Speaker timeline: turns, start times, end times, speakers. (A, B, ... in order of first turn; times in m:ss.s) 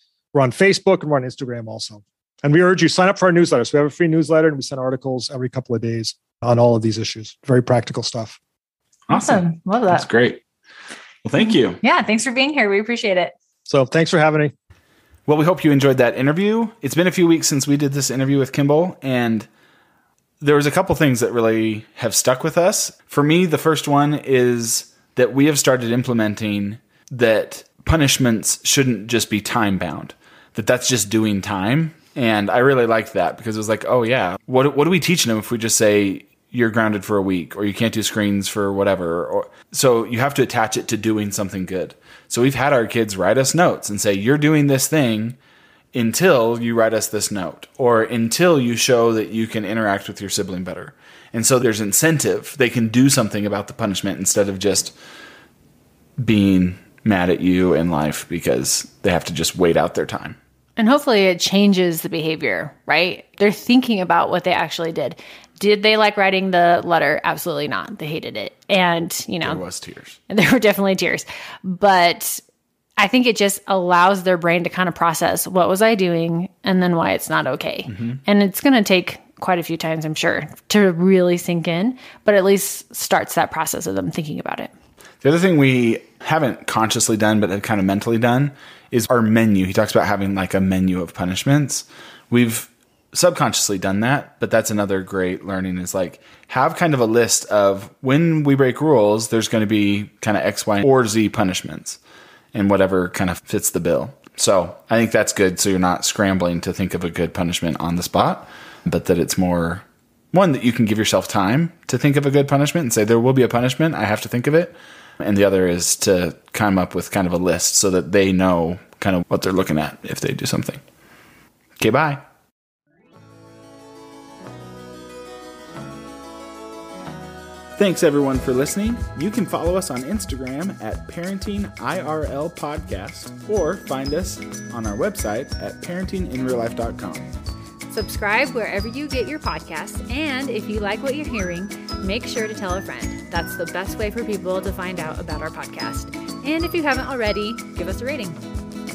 0:00.3-0:08.4 A
0:09.1-0:10.4 B
0:09.1-0:10.0 C
0:11.2-0:11.8 B
0:11.4-0:13.3 C
0:13.7-0:14.5 A
0:15.3-0:19.5 B
0:20.4-0:45.4 B
0:45.9-0:54.9 B
0:56.2-1:00.4 B
1:00.8-1:09.6 C
1:09.4-1:10.2 B
1:10.3-1:12.4 C
1:13.0-1:24.7 C
1:17.9-1:18.2 B
1:25.2-1:42.0 B
1:42.5-2:00.8 B
2:01.8-2:02.2 B
2:07.7-2:17.3 B
2:17.9-2:28.4 C